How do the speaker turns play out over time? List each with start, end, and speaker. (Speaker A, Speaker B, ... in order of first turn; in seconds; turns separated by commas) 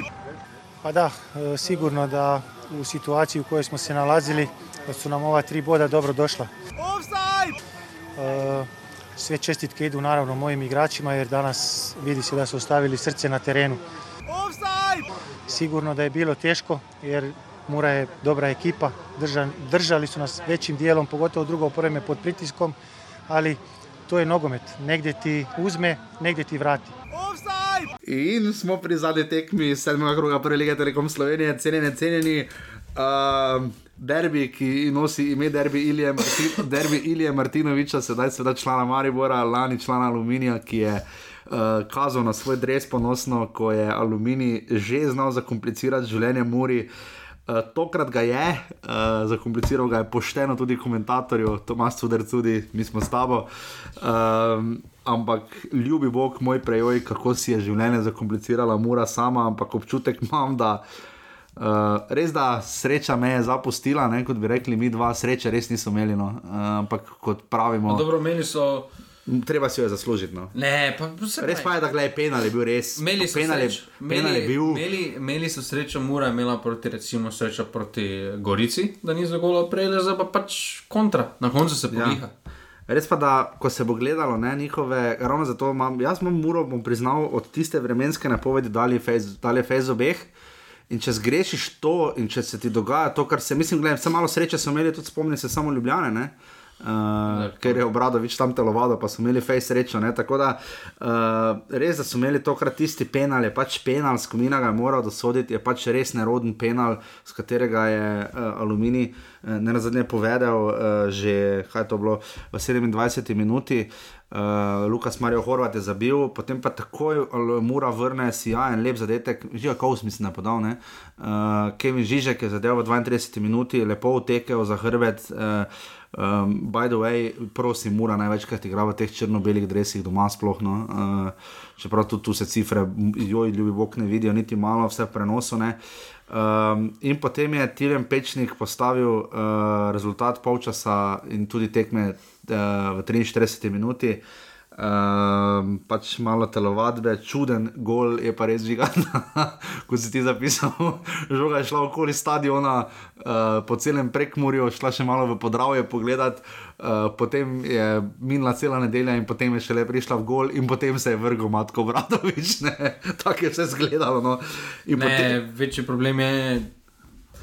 Speaker A: 0.8-6.5, Speaker A: 8.2-13.8, Speaker A: 15.5-22.8, Speaker A: 23.3-26.9, Speaker B: 28.0-46.9, Speaker B: 47.5-60.8, Speaker B: 61.6-68.0, Speaker C: 67.9-68.9, Speaker B: 69.2-70.5, Speaker C: 70.5-71.7, Speaker B: 71.4-74.8, Speaker C: 73.0-82.3, Speaker B: 81.9-82.2, Speaker B: 82.9-90.3, Speaker B: 90.9-144.2, Speaker C: 97.3-97.8, Speaker B: 144.7-165.4, Speaker C: 164.9-166.7